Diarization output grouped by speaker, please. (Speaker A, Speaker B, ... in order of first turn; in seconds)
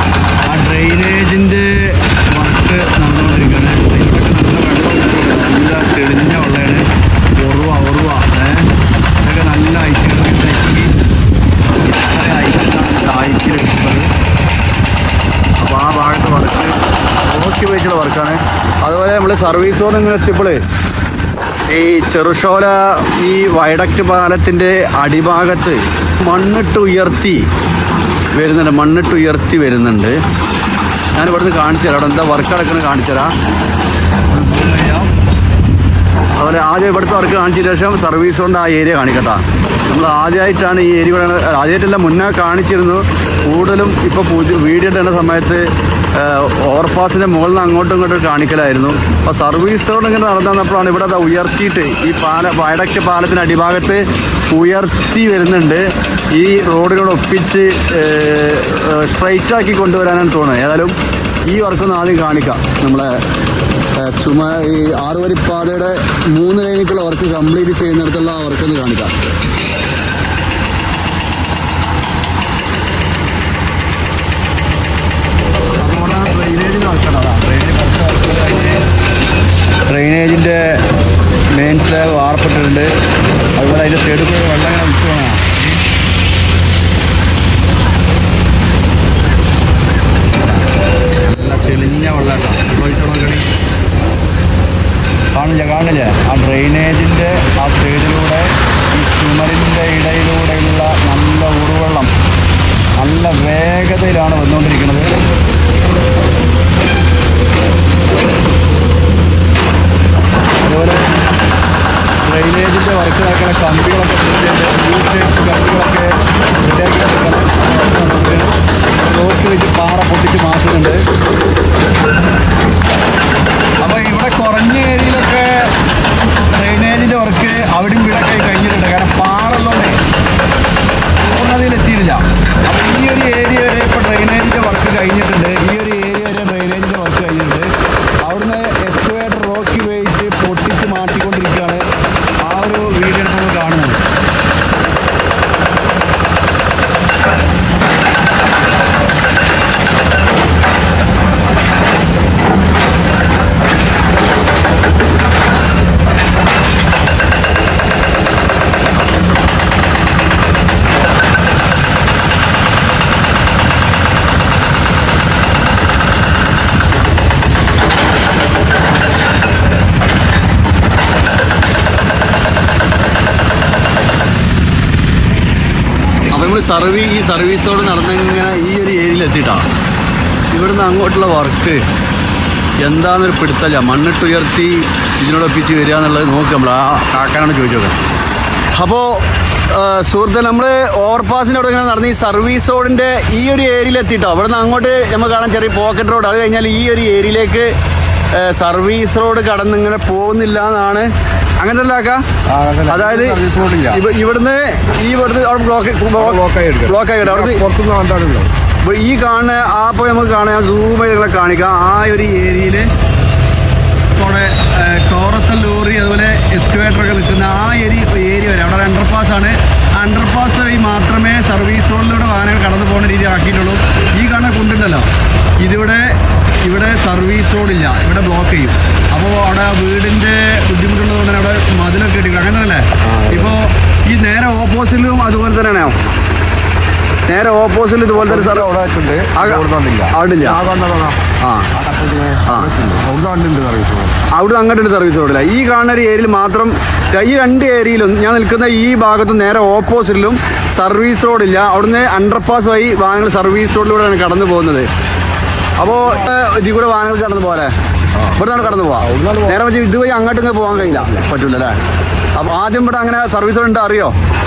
Speaker A: 0.4-8.7, 9.2-10.9, 11.8-14.1, 15.6-20.6, 21.7-27.5, 28.4-30.2, 31.1-33.3, 34.3-35.1, 36.4-63.2, 63.9-69.2, 75.8-78.8, 79.9-80.8, 81.5-82.9, 83.6-85.7, 91.2-93.5, 95.3-102.1, 103.0-105.2, 110.6-111.3, 112.2-121.0, 123.8-125.7, 126.5-130.0, 131.2-137.7, 138.2-141.8, 142.4-144.0, 176.3-179.7, 180.5-181.8, 182.8-188.0, 188.7-197.7, 198.3-202.2, 202.9-207.6, 208.8-212.9, 214.2-236.0, 237.3-238.7, 239.3-240.6, 241.4-241.7, 242.4-242.8, 244.3-254.9, 255.8-257.7, 258.2-261.8, 262.4-264.1
Speaker B: 202.5-204.0, 206.2-208.5, 233.1-233.5, 238.2-241.2, 241.8-244.2, 258.2-259.6